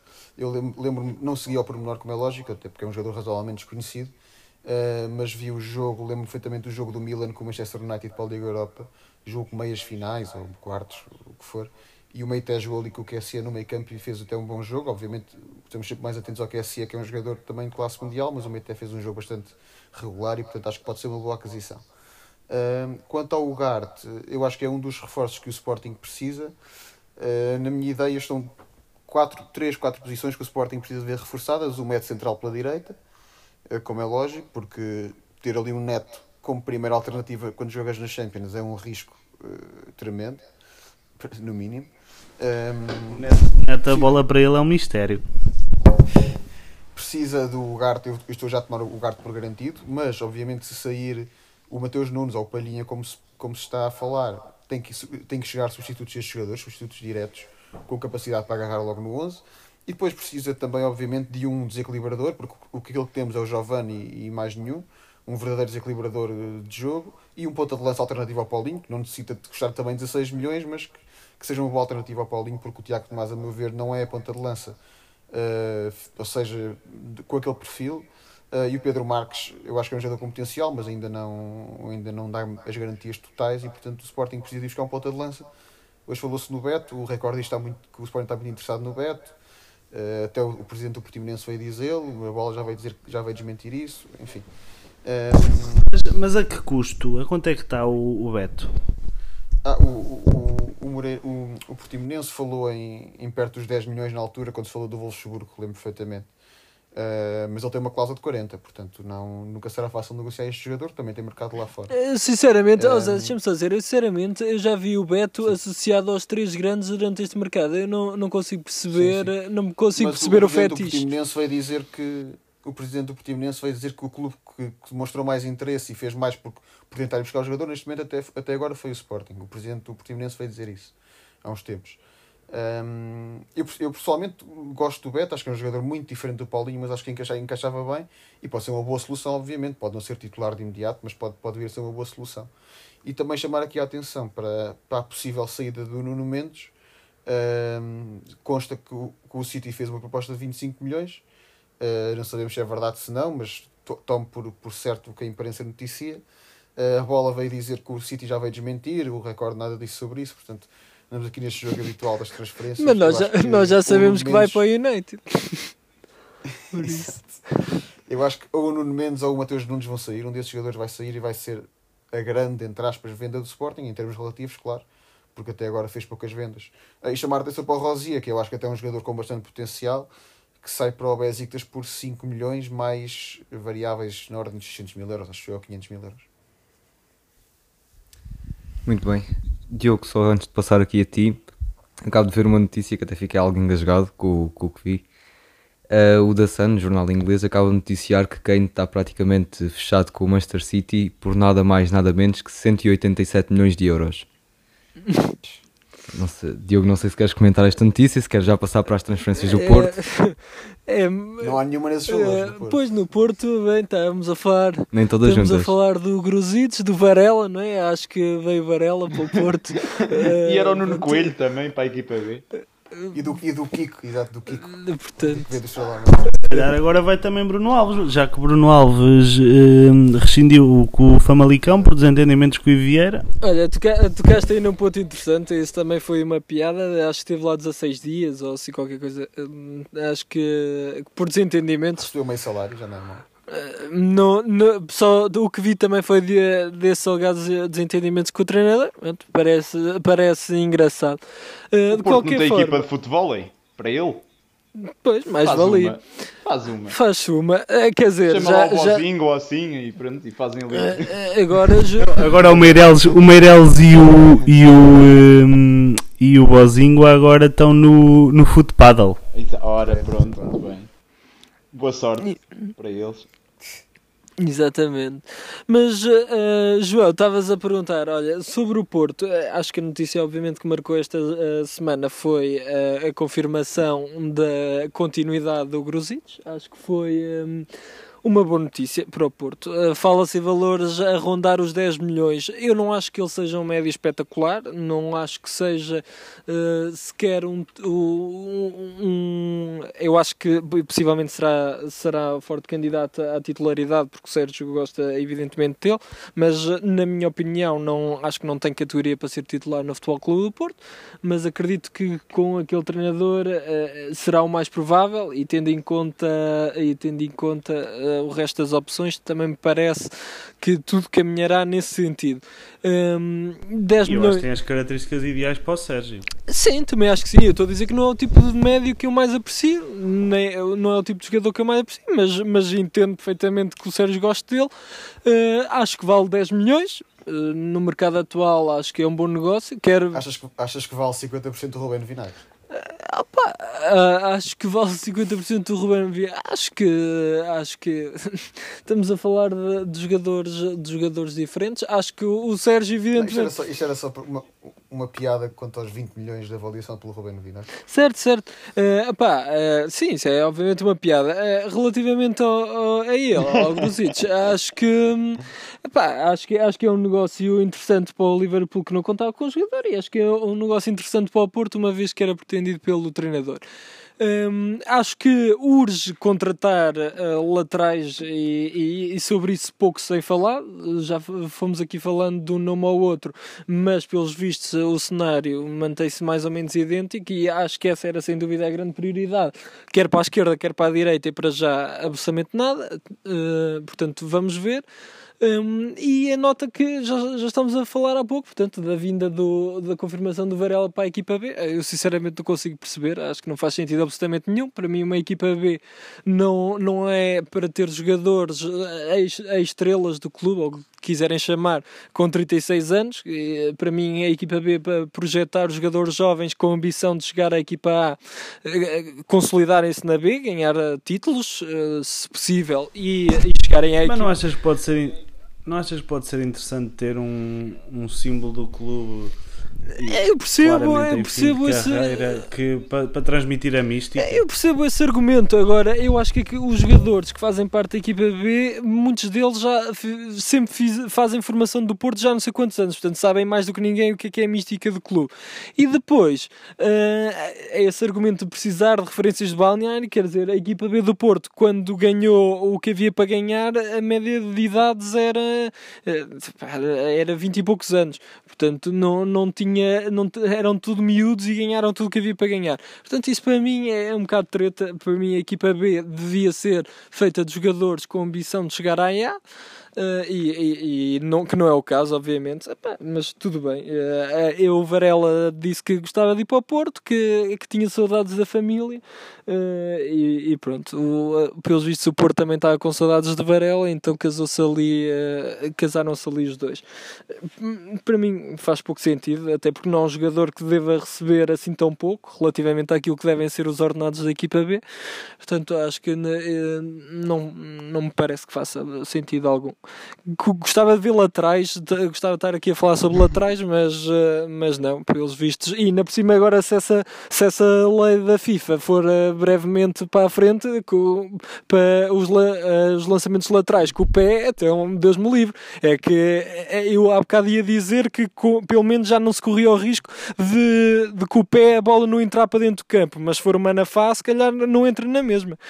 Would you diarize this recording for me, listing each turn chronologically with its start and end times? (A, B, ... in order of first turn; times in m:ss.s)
0:00.4-0:21.8 A
0:22.5-0:26.5 A
0:27.2-0:28.5 A
0:29.1-0:33.0 A
0:33.7-0:40.4 A
0:41.2-0:43.3 A
0:43.1-0:45.2 B
0:43.8-0:44.1 A
0:46.9-1:14.8 A
1:15.3-1:25.5 A
1:26.1-1:29.4 A
1:29.9-1:34.5 A
1:35.0-1:35.9 A
1:35.9-1:38.7 B
1:39.6-1:46.3 A
1:46.9-1:51.9 A
1:51.9-2:01.1 C
1:52.8-1:53.4 A
1:58.9-1:59.3 A
1:59.9-2:22.5 A
2:23.0-2:26.7 A
2:27.2-2:31.2 A
2:31.8-2:36.2 A
2:36.8-2:44.6 A
2:42.8-2:45.7 C
2:46.7-2:47.4 C
2:46.8-2:47.3 A
2:48.0-3:06.2 A
3:08.9-3:11.4 D
3:12.0-3:15.1 D
3:15.9-3:24.3 D
3:25.1-3:25.3 C
3:26.1-3:29.9 D
3:29.4-3:41.3 C
3:31.4-3:32.8 A
3:34.9-3:35.7 D
3:40.1-3:42.4 E
3:43.1-3:46.7 A
3:44.6-3:45.5 C
3:46.5-3:53.2 B
3:53.4-4:02.1 C
4:02.0-4:03.2 A
4:03.5-4:12.9 C
4:11.9-4:14.2 E
4:14.8-4:16.0 C
4:15.4-4:17.0 E
4:16.9-4:19.1 C
4:18.2-4:21.8 E
4:20.7-4:22.2 C
4:22.1-4:29.2 B
4:29.3-4:30.9 E
4:29.8-4:30.6 A
4:31.7-4:33.2 E
4:34.4-4:47.7 C
4:48.2-5:24.5 C
5:24.0-5:26.3 B
5:26.5-5:34.7 C
5:35.2-5:40.2 C
5:40.1-5:42.4 A
5:42.7-5:53.5 C
5:53.2-5:57.7 A
5:57.9-6:13.6 C
6:14.2-6:34.8 C
6:35.4-7:04.3 C
7:04.0-7:09.3 B
7:09.9-7:12.4 C
7:10.0-7:14.4 B
7:14.2-7:49.4 C
7:50.0-8:06.8 C
8:07.4-8:14.8 C
8:15.4-8:19.8 C
8:20.3-8:45.6 C